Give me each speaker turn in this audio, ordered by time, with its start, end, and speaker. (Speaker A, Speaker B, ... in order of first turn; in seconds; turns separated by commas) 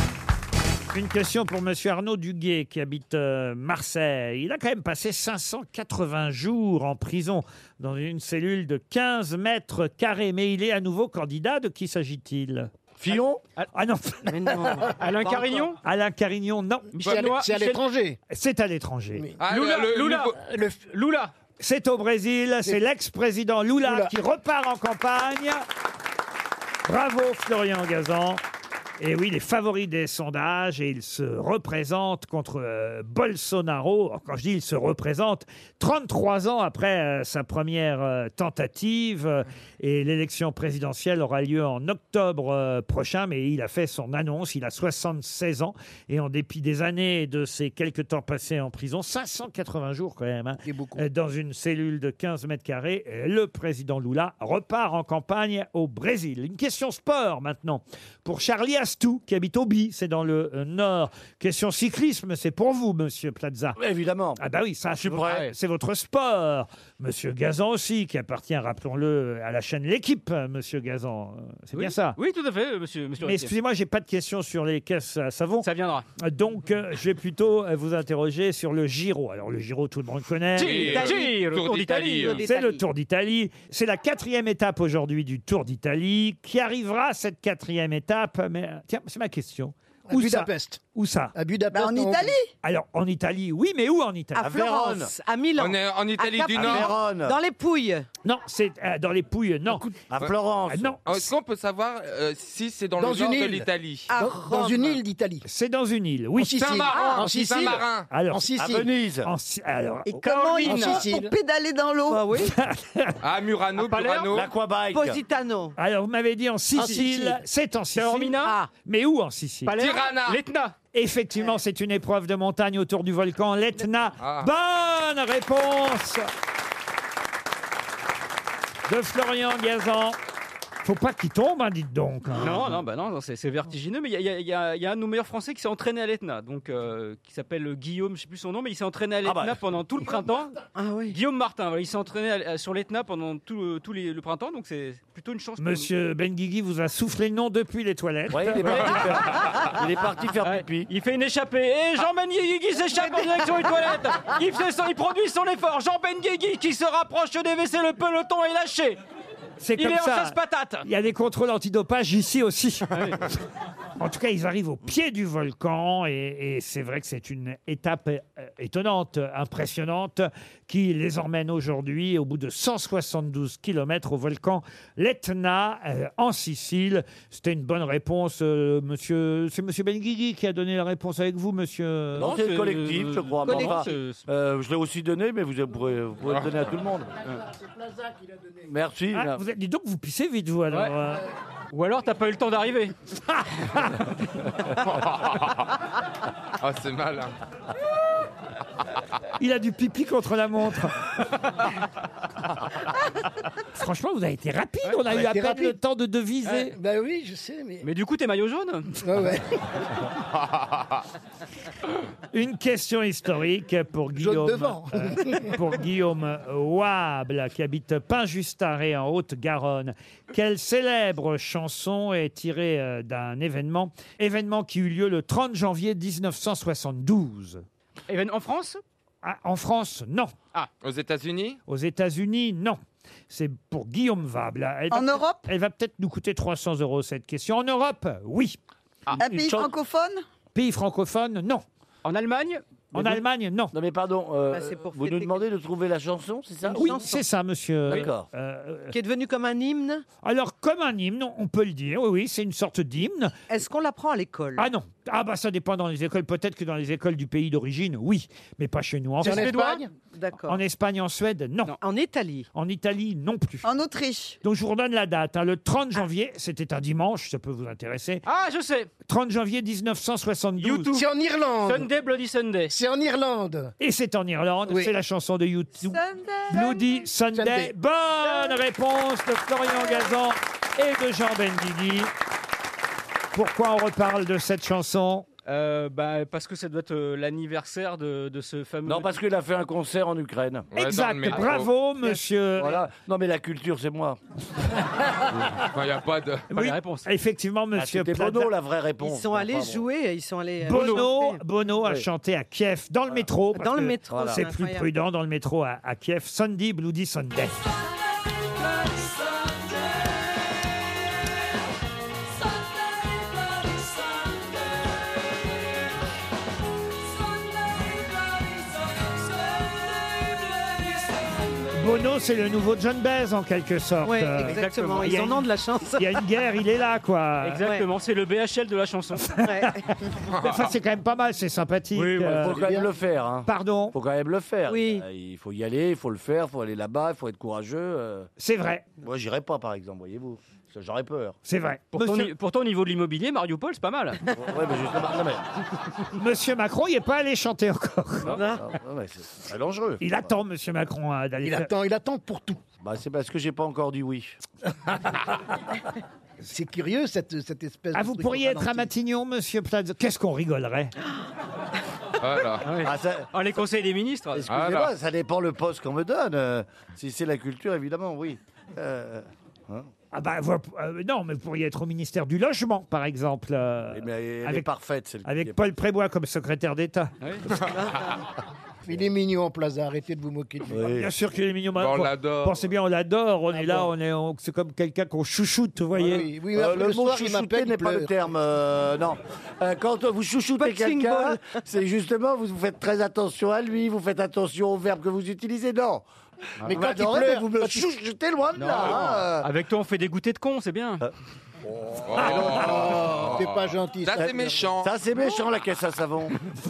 Speaker A: 0.9-12.7, Speaker B: 13.0-13.4, Speaker A: 13.7-14.4, Speaker C: 14.3-15.7, Speaker D: 14.9-15.8, Speaker A: 15.8-16.9, Speaker D: 16.9-17.8, Speaker E: 17.0-18.2, Speaker A: 18.3-19.2, Speaker F: 19.4-20.4, Speaker D: 19.5-20.3, Speaker E: 20.4-20.9, Speaker D: 20.9-21.3, Speaker A: 21.6-25.6, Speaker E: 23.8-24.1, Speaker A: 26.8-28.4, Speaker A: 29.0-63.8, Speaker E: 50.6-51.0, Speaker B: 63.8-64.4, Speaker A: 64.4-72.2, Speaker B: 65.0-65.4, Speaker D: 65.1-65.5, Speaker D: 71.7-73.5, Speaker A: 73.2-81.1, Speaker D: 75.6-76.0, Speaker D: 80.5-82.4, Speaker F: 80.6-82.4, Speaker C: 81.0-81.3, Speaker C: 82.2-82.8, Speaker A: 82.4-91.3, Speaker E: 90.1-90.8, Speaker E: 91.4-92.3, Speaker G: 91.7-92.5, Speaker A: 92.6-94.5, Speaker C: 94.4-98.1, Speaker B: 94.4-95.1, Speaker F: 95.6-96.9, Speaker B: 96.5-97.4, Speaker A: 98.2-99.9, Speaker B: 100.1-101.0, Speaker A: 100.7-101.3, Speaker F: 101.0-104.1, Speaker E: 103.0-105.5, Speaker C: 104.1-105.0, Speaker A: 105.4-106.7, Speaker E: 106.4-108.9, Speaker F: 106.5-108.1, Speaker A: 108.1-108.6, Speaker B: 108.6-109.3, Speaker A: 109.2-110.3, Speaker D: 110.1-111.1, Speaker G: 110.3-112.3, Speaker E: 110.6-111.3, Speaker C: 112.1-112.5, Speaker A: 112.4-113.2, Speaker F: 113.2-114.5, Speaker D: 113.8-114.4, Speaker B: 114.3-115.2, Speaker C: 114.9-115.8, Speaker A: 115.8-119.8, Speaker E: 116.8-117.4, Speaker D: 117.9-118.6, Speaker C: 118.4-118.7, Speaker D: 119.6-120.7, Speaker F: 119.8-120.4, Speaker A: 120.9-126.3, Speaker F: 124.2-124.5, Speaker A: 128.9-130.2, Speaker A: 130.8-132.7, Speaker D: 132.3-145.9, Speaker B: 139.2-139.6, Speaker C: 140.7-141.2, Speaker A: 145.6-149.1, Speaker B: 148.3-150.9, Speaker D: 149.4-149.8, Speaker D: 150.4-159.0, Speaker A: 159.6-163.1, Speaker D: 159.8-160.9, Speaker D: 162.9-163.2, Speaker A: 164.0-182.3, Speaker D: 182.2-184.2, Speaker B: 182.2-187.1, Speaker C: 183.5-183.8, Speaker E: 187.3-188.7, Speaker B: 188.7-189.4, Speaker A: 189.1-191.3, Speaker D: 190.7-191.0, Speaker D: 191.7-192.9, Speaker A: 193.5-194.0, Speaker F: 194.8-195.7, Speaker F: 196.6-197.3, Speaker A: 199.4-201.1, Speaker A: 203.7-206.8, Speaker E: 205.1-205.8, Speaker E: 206.5-207.9, Speaker D: 207.8-209.0, Speaker E: 209.0-209.9, Speaker A: 212.3-227.6, Speaker E: 214.2-215.6, Speaker D: 228.1-228.8, Speaker A: 229.2-230.3, Speaker F: 230.8-231.6, Speaker A: 231.7-238.6, Speaker G: 234.9-235.4, Speaker B: 239.2-239.7, Speaker G: 239.2-240.2, Speaker A: 240.6-241.6, Speaker D: 242.0-243.2, Speaker A: 242.9-243.7, Speaker B: 243.7-247.1, Speaker C: 244.5-245.4, Speaker C: 246.6-247.2, Speaker A: 246.8-248.9, Speaker B: 247.9-248.3, Speaker C: 248.9-250.1, Speaker A: 250.2-253.3, Speaker C: 253.5-254.7, Speaker A: 254.6-259.6, Speaker E: 259.2-259.9, Speaker D: 259.2-259.8, Speaker C: 260.1-260.6, Speaker A: 260.4-261.8, Speaker C: 261.8-262.5, Speaker A: 262.5-263.6, Speaker G: 263.6-264.4, Speaker A: 264.4-268.2, Speaker D: 268.3-268.9, Speaker A: 269.1-270.9, Speaker D: 270.6-271.1, Speaker E: 270.9-271.9, Speaker D: 271.6-272.7, Speaker E: 272.7-273.7, Speaker A: 273.8-282.1, Speaker E: 274.7-274.9, Speaker G: 275.9-276.8, Speaker E: 277.3-277.7, Speaker A: 283.3-285.3, Speaker D: 285.4-289.2, Speaker B: 288.9-290.7, Speaker F: 290.7-291.7, Speaker A: 290.7-292.8, Speaker B: 292.6-294.2, Speaker F: 295.5-296.5, Speaker A: 296.5-298.5, Speaker D: 296.5-297.1, Speaker B: 297.8-299.8, Speaker C: 299.0-301.4, Speaker A: 300.6-307.6, Speaker D: 300.7-301.0, Speaker C: 303.5-304.9, Speaker B: 304.1-304.5, Speaker A: 321.7-327.6, Speaker C: 324.0-326.2, Speaker D: 324.4-325.2, Speaker D: 327.4-329.4, Speaker C: 327.6-327.9, Speaker C: 329.4-329.9, Speaker A: 329.4-332.6, Speaker F: 330.3-330.6, Speaker D: 331.9-332.7, Speaker B: 332.0-338.3, Speaker E: 332.4-332.9, Speaker A: 333.4-333.9, Speaker C: 334.7-335.1, Speaker A: 338.4-338.9, Speaker B: 339.0-341.4, Speaker A: 341.4-342.3, Speaker D: 341.9-344.2, Speaker B: 344.3-345.4, Speaker A: 346.1-348.4, Speaker C: 348.4-348.6, Speaker B: 348.4-350.1, Speaker A: 350.0-351.7, Speaker E: 351.4-352.6, Speaker B: 352.8-354.4, Speaker E: 356.4-358.9, Speaker A: 357.9-360.9, Speaker F: 362.2-362.7, Speaker D: 362.6-364.5, Speaker B: 362.7-363.3, Speaker B: 364.3-369.9, Speaker F: 364.5-364.9, Speaker A: 370.1-374.7, Speaker B: 373.9-375.6, Speaker A: 375.2-377.8, Speaker D: 377.2-377.4, Speaker E: 378.9-380.9, Speaker B: 380.7-381.1, Speaker A: 380.9-386.3, Speaker F: 381.8-382.7, Speaker E: 383.5-383.9, Speaker E: 386.0-388.1, Speaker B: 386.5-396.0, Speaker C: 390.6-391.6, Speaker B: 396.6-399.5, Speaker E: 396.6-397.9, Speaker D: 398.5-401.0, Speaker B: 401.8-402.9, Speaker F: 402.0-404.9, Speaker E: 402.2-404.6, Speaker B: 404.2-406.4